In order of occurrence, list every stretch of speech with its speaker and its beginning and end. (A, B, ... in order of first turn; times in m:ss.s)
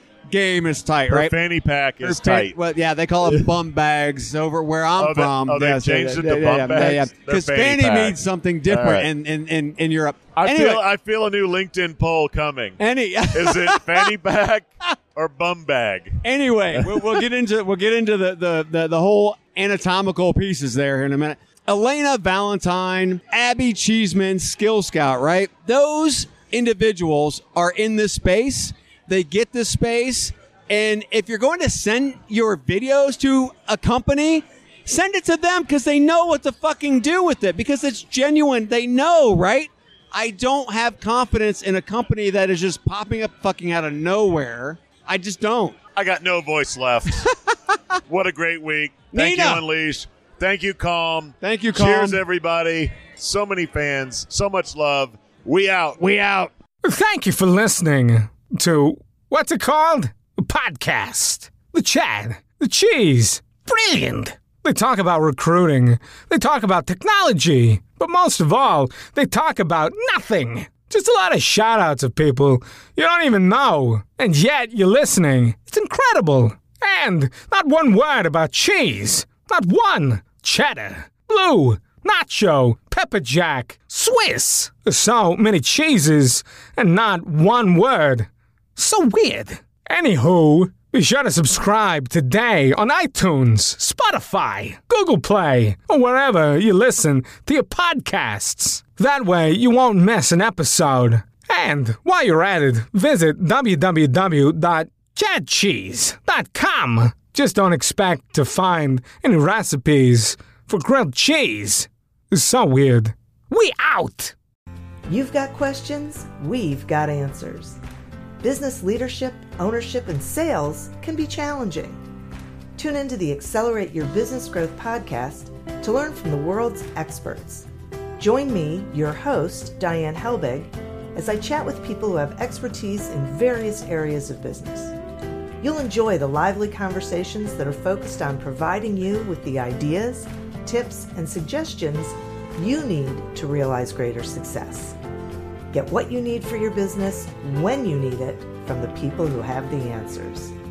0:00.3-0:01.3 A
0:01.1-0:02.6 B
0:02.0-0:10.8 A
0:05.0-0:09.1 B
0:10.4-0:12.8 B
0:12.8-0:14.1 A
0:13.3-0:16.2 B
0:16.2-0:45.8 A
0:16.7-0:17.2 B
0:46.0-0:47.3 B
0:48.1-0:56.0 B
0:49.1-0:49.6 A
0:51.4-0:52.2 A
0:56.0-0:56.5 A
0:56.8-1:54.3 C
1:55.1-1:57.8 D
1:58.4-2:02.0 D
2:02.8-2:07.7 D
2:08.2-2:14.9 D
2:15.6-2:25.0 D
2:25.7-2:30.5 D